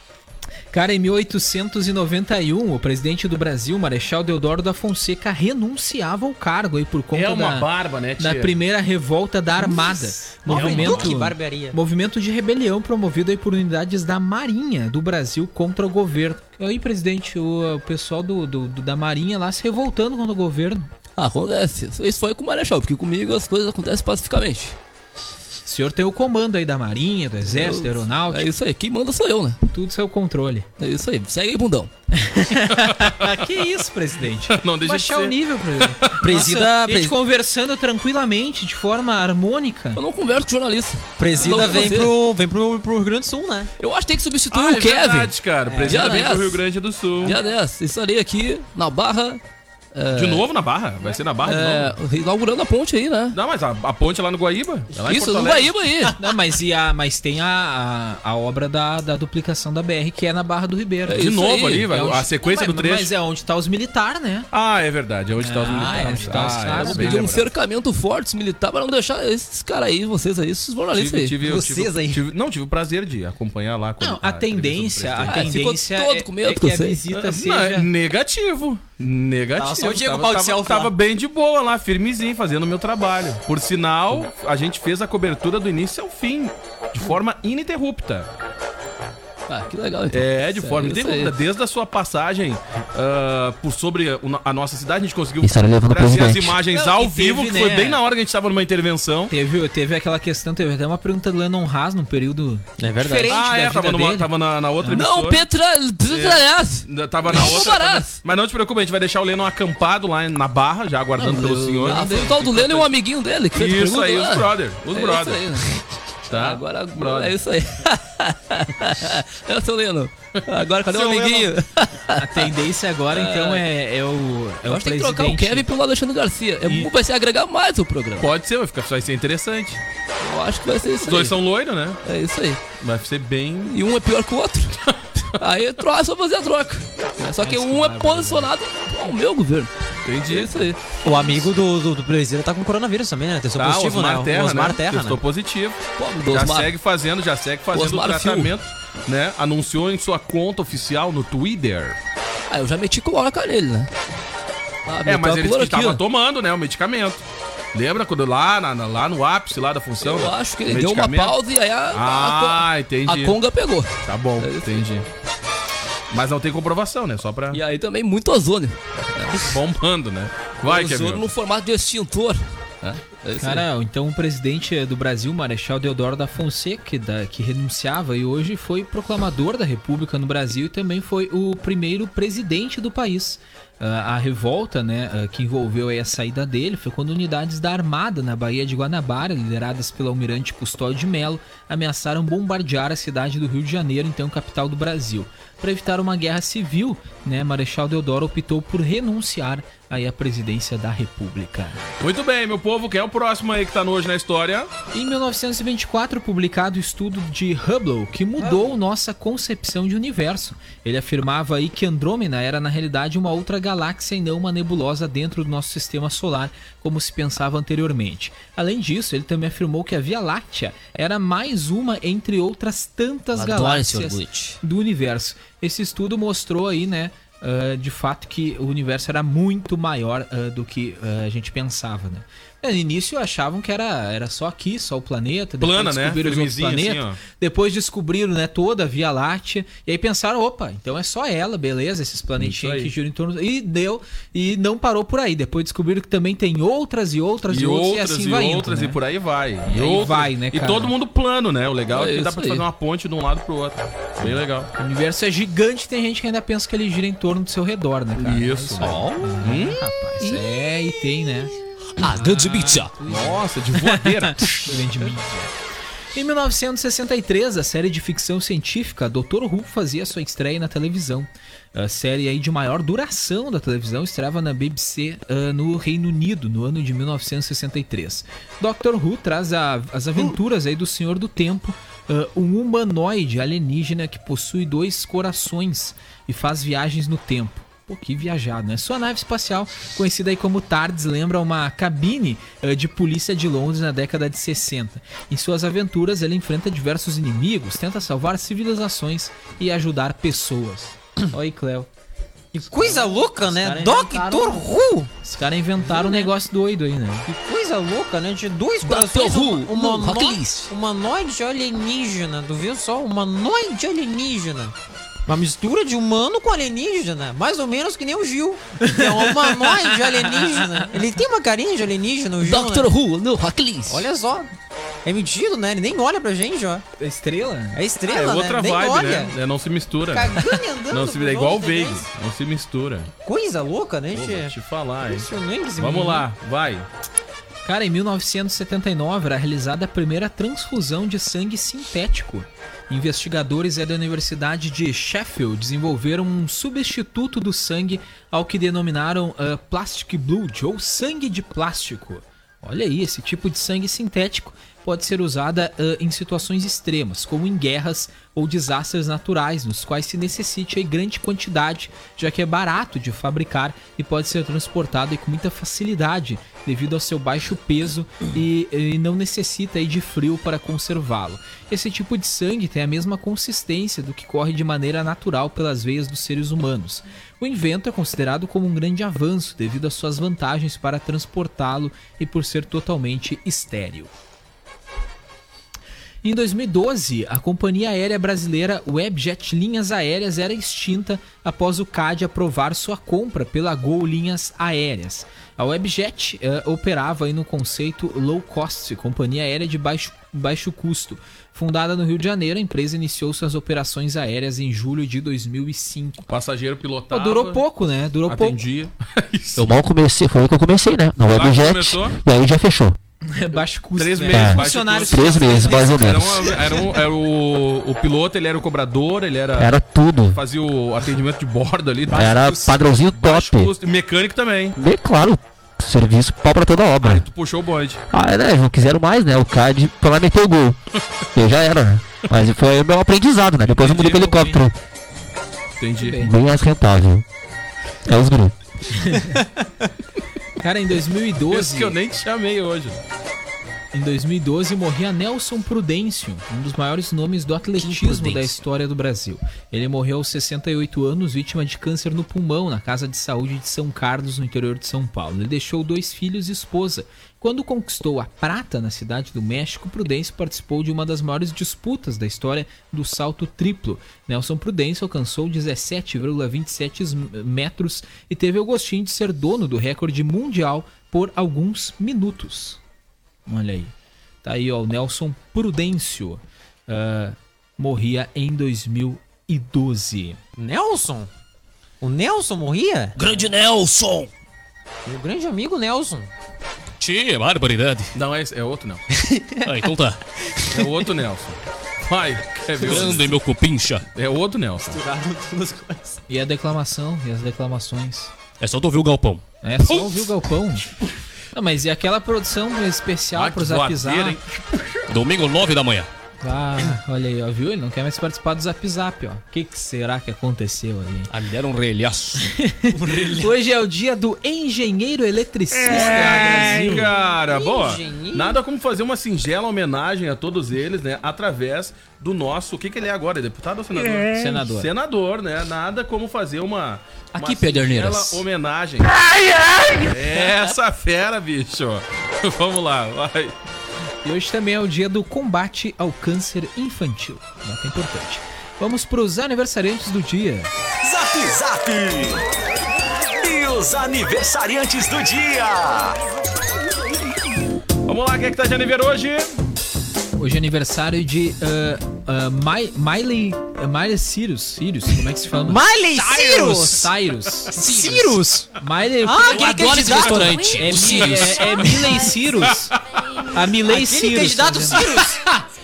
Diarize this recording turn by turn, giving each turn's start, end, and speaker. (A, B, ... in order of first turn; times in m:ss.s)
0:00.7-0:20.9 A
0:07.1-0:08.6 B
0:10.4-0:11.8 C
0:10.5-0:11.1 B
0:21.2-0:24.7 D
0:25.6-0:28.5 A
0:27.5-0:29.6 D
0:29.6-0:30.6 A
0:30.8-0:31.9 D
0:32.1-0:40.0 A
0:32.8-0:33.4 B
0:34.5-0:36.2 B
0:36.2-0:37.1 C
0:40.0-0:42.1 D
0:41.2-0:43.7 C
0:41.4-0:41.8 A
0:43.8-0:46.6 D
0:44.5-0:47.4 B
0:45.6-0:46.2 C
0:47.2-0:49.4 D
0:49.9-0:50.4 D
0:50.1-0:51.9 B
0:51.4-0:53.4 D
0:53.3-0:55.8 B
0:55.0-0:56.2 D
0:56.2-1:01.3 A
1:01.1-1:01.9 D
1:01.2-1:03.1 B
1:01.8-1:04.5 A
1:04.5-1:07.5 B
1:05.4-1:07.3 A
1:05.6-1:06.4 C
1:06.2-1:11.4 D
1:10.9-1:15.6 B
1:11.4-1:12.2 C
1:14.0-1:17.9 A
1:15.2-1:17.0 D
1:17.1-1:28.3 B
1:19.6-1:20.9 C
1:29.5-1:31.3 D
1:30.1-1:39.3 B
1:35.4-1:36.6 E
1:36.7-1:38.0 A
1:39.3-1:45.0 A
1:42.8-1:43.4 C
1:43.3-1:45.4 B
1:44.9-1:48.2 D
1:46.1-1:52.9 B
1:51.2-2:02.5 D
1:51.8-1:52.4 A
1:53.5-1:55.5 B
1:56.3-1:57.3 B
2:00.9-2:01.5 C
2:02.1-2:05.6 A
2:03.1-2:03.6 D
2:04.6-2:08.3 D
2:08.2-2:09.8 B
2:10.2-2:11.4 D
2:11.0-2:12.0 B
2:12.0-2:12.6 D
2:12.8-2:13.8 B
2:13.7-2:14.8 D
2:15.3-2:19.7 D
2:17.4-2:18.5 A
2:20.0-2:20.5 B
2:20.2-2:20.8 D
2:21.0-2:25.2 C
2:23.6-2:25.8 B
2:26.0-2:26.7 D
2:26.3-2:32.0 B
2:27.7-2:28.5 D
2:32.5-2:33.9 D
2:34.9-2:36.0 D
2:35.0-2:37.2 B
2:37.7-2:41.4 B
2:40.0-2:44.8 D
2:41.9-2:43.4 B
2:44.0-2:45.0 B
2:46.1-2:47.6 B
2:47.5-2:49.5 D
2:49.3-2:51.3 B
2:50.6-2:53.7 D
2:53.4-3:21.8 A
3:22.0-3:24.7 B
3:24.9-4:09.0 A
3:43.3-3:44.6 D
3:55.6-3:57.2 B
4:02.4-4:02.9 B
4:07.5-4:14.7 B
4:09.6-4:10.9 A
4:11.9-4:12.6 D
4:14.7-4:25.5 A
4:18.2-4:19.8 B
4:18.8-4:19.4 D
4:22.0-4:22.9 D
4:23.0-4:24.7 B
4:26.1-5:01.9 A
5:02.5-5:05.1 C
5:02.8-5:04.7 A
5:05.2-5:07.3 A
5:05.8-5:06.3 C
5:07.3-5:14.7 C
5:08.8-5:10.7 D
5:15.2-5:22.9 C
5:18.8-5:20.7 A
5:22.4-5:24.1 D
5:23.9-5:24.5 C
5:25.0-5:26.8 C
5:27.0-5:27.8 A
5:27.7-5:29.3 C
5:28.0-5:33.1 B
5:30.1-5:32.1 C
5:33.2-5:36.2 C
5:34.1-5:35.3 B
5:35.8-5:36.8 B
5:37.6-6:24.1 A
6:26.2-6:46.3 A
6:46.3-6:47.6 B
6:47.1-6:48.6 A
6:48.3-6:49.6 B
6:49.6-6:53.0 E
6:51.3-6:52.2 B
6:53.2-6:56.2 A
6:54.0-6:59.7 B
6:54.3-6:56.5 E
6:59.6-7:00.4 E
7:00.3-7:04.8 B
7:02.1-7:03.7 E
7:04.8-7:07.2 E
7:07.0-7:08.0 B
7:08.1-7:10.8 E
7:11.3-7:14.7 E
7:13.8-7:14.2 B
7:13.8-7:14.6 A
7:15.8-7:16.2 B
7:16.0-7:16.3 A
7:16.2-7:17.2 E
7:18.1-7:18.5 E
7:18.9-7:19.4 A
7:20.6-7:22.0 A
7:21.5-7:23.0 B
7:23.9-7:52.8 A
7:27.8-7:28.6 D
7:53.5-7:53.9 A
7:54.4-8:00.4 A
8:00.6-8:01.3 C
8:02.0-8:03.2 C
8:03.2-8:04.3 D
8:05.0-8:06.3 C
8:07.0-8:08.1 D
8:08.1-8:09.0 B
8:09.1-8:09.9 C
8:09.6-8:10.2 D
8:10.6-8:10.9 C
8:10.7-8:13.3 B
8:12.8-8:14.0 D
8:14.1-8:15.0 B
8:14.8-8:16.2 C
8:16.3-8:18.3 A
8:18.6-8:19.4 D
8:19.6-8:20.9 A
8:21.5-8:24.4 A
8:23.3-8:24.9 B
8:25.1-8:26.1 D
8:26.4-8:31.3 A
8:31.3-8:33.5 D
8:32.4-8:37.1 A
8:35.8-8:49.1 B
8:35.9-8:38.6 C
8:44.3-8:44.9 A
8:47.3-8:48.4 D
8:50.0-8:53.5 B
8:54.2-9:00.7 A
9:01.0-9:02.4 F
9:03.4-9:06.2 F
9:08.0-9:09.5 B
9:10.4-9:15.8 A
9:15.6-9:17.1 C
9:16.2-9:16.7 D
9:16.4-9:17.7 A
9:17.7-9:18.7 C
9:17.7-9:18.4 D
9:18.8-9:22.9 A
9:19.2-9:21.5 C
9:19.4-9:22.2 D
9:23.5-9:25.0 A
9:23.9-9:25.4 C